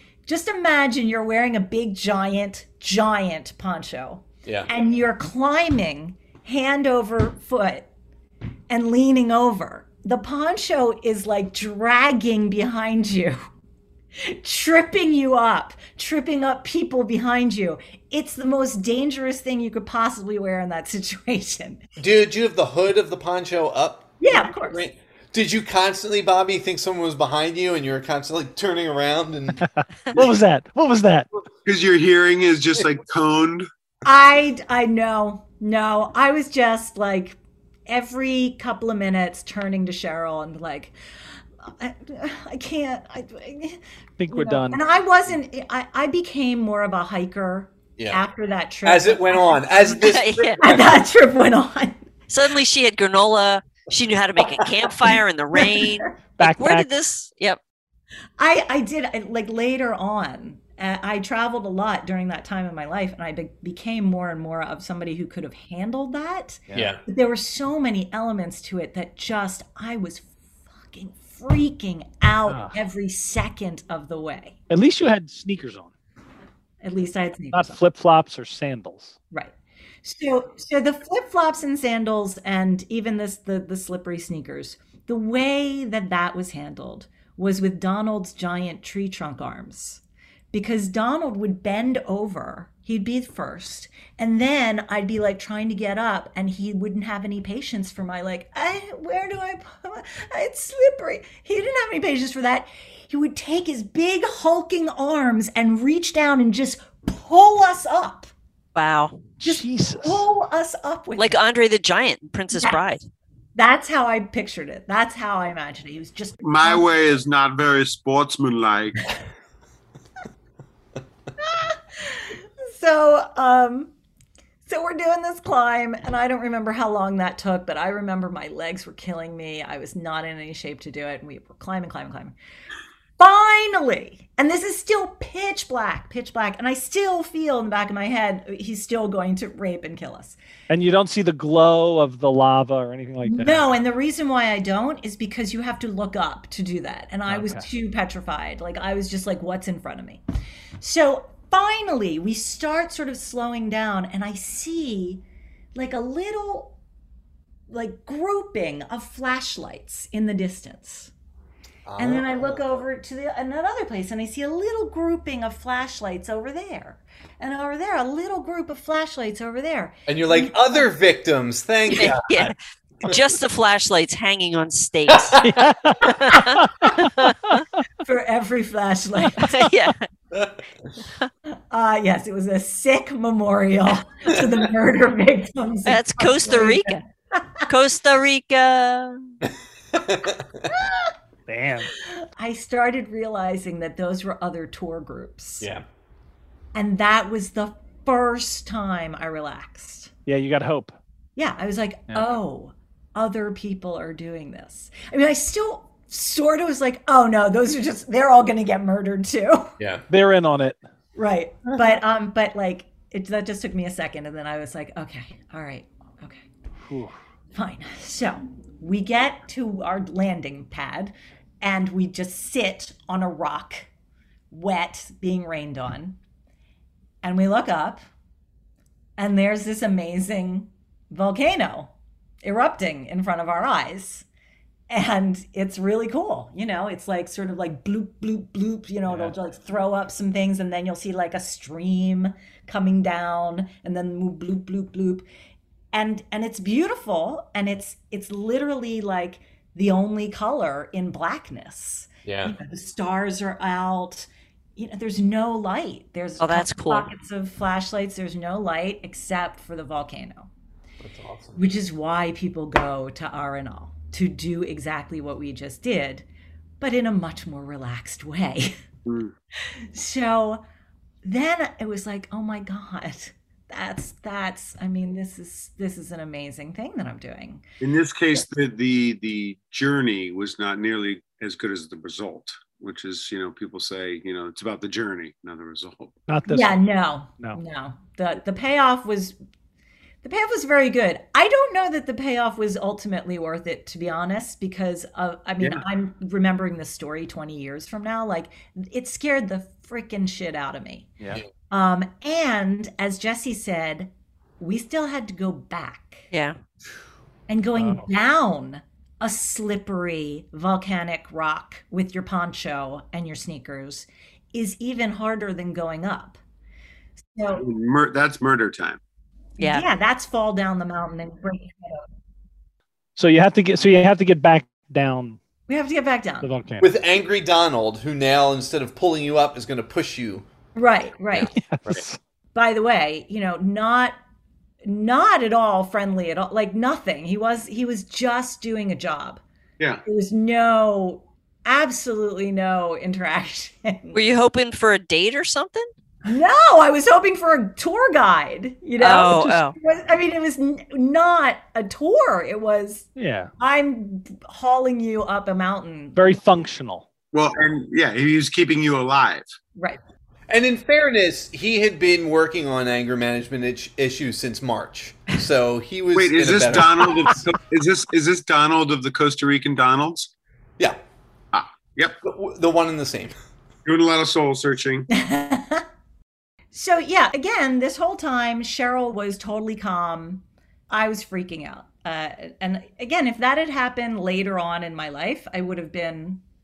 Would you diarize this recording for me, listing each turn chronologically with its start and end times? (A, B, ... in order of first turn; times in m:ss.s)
0:00.3-0:07.9 A
0:08.7-0:13.4 A
0:14.2-0:21.8 A
0:22.0-0:29.6 B
0:24.2-0:24.8 A
0:29.6-0:31.3 C
0:31.6-0:33.7 D
0:34.0-0:40.9 A
0:41.6-0:49.9 A
0:44.2-0:44.8 C
0:48.0-0:48.2 B
0:48.8-0:51.0 B
0:50.0-0:50.6 E
0:50.6-0:52.1 A
0:52.3-0:57.6 E
0:55.6-0:55.9 A
0:56.4-0:56.9 C
0:58.4-1:14.6 A
1:06.7-1:07.0 B
1:12.5-1:12.8 C
1:14.7-1:15.9 C
1:16.8-1:17.8 A
1:17.5-1:19.2 C
1:19.3-1:48.3 A
1:48.8-1:49.2 E
1:49.4-1:50.2 C
1:49.4-1:51.4 A
1:51.2-1:53.0 E
1:52.5-1:52.8 A
1:53.6-1:56.9 A
1:56.4-1:59.1 D
2:01.4-2:03.9 A
2:04.7-2:12.4 A
2:13.2-2:20.4 A
2:20.7-2:23.8 C
2:23.2-2:30.2 A
2:27.3-2:27.6 C
2:30.8-2:35.2 A
2:35.8-2:36.8 A
2:37.7-2:41.1 A
2:41.9-2:42.8 B
2:42.0-2:50.6 A
2:50.1-2:52.5 B
2:51.9-2:55.4 E
2:55.1-2:55.6 B
2:55.4-2:57.6 C
2:56.0-2:57.6 E
2:58.0-2:59.5 A
2:59.4-3:00.1 E
3:01.7-3:07.6 A
3:05.9-3:07.0 E
3:07.7-3:09.3 E
3:09.9-3:10.6 B
3:10.8-3:11.1 A
3:11.5-3:11.9 C
3:12.0-3:15.6 A
3:16.7-3:20.1 A
3:20.2-3:20.9 C
3:21.4-3:29.7 A
3:29.8-3:30.1 B
3:30.1-3:30.8 C
3:31.2-3:36.4 A
3:36.9-3:37.2 C
3:37.5-3:43.9 A
3:44.5-3:46.2 A
3:47.2-3:48.0 A
3:49.2-3:51.9 A
3:52.4-3:54.2 A
3:54.9-4:05.2 A
3:59.1-3:59.3 C
4:05.9-4:20.5 A
4:12.2-4:12.6 B
4:16.4-4:17.1 E
4:21.0-4:21.6 B
4:21.6-4:26.2 A
4:26.8-4:28.8 A
4:29.0-4:29.3 D
4:29.7-4:30.6 A
4:31.2-4:37.6 A
4:37.8-4:46.2 D
4:46.3-4:46.8 C
4:46.5-4:49.4 A
4:50.2-5:01.1 A
5:01.7-5:06.3 A
5:07.5-5:16.4 A
5:07.8-5:08.1 C
5:17.2-5:17.6 A
5:17.5-5:19.0 D
5:19.6-5:22.0 A
5:19.6-5:19.8 E
5:23.2-5:25.4 C
5:25.7-5:26.5 A
5:26.4-5:26.9 C
5:26.8-5:30.5 B
5:30.8-5:31.5 A
5:31.4-5:32.0 B
5:31.5-5:32.2 C
5:32.6-5:34.2 A
5:34.8-5:39.4 A
5:40.0-5:44.2 A
5:44.1-5:45.9 E
5:46.2-5:56.4 A
5:49.0-5:49.8 E
5:53.2-5:53.5 C
5:56.2-5:57.1 C
5:57.3-5:59.5 D
6:00.5-6:07.4 B
6:06.1-6:10.3 D
6:11.5-6:12.2 D
6:12.2-6:13.4 B
6:13.8-6:15.1 D
6:15.1-6:15.9 A
6:16.7-6:26.4 A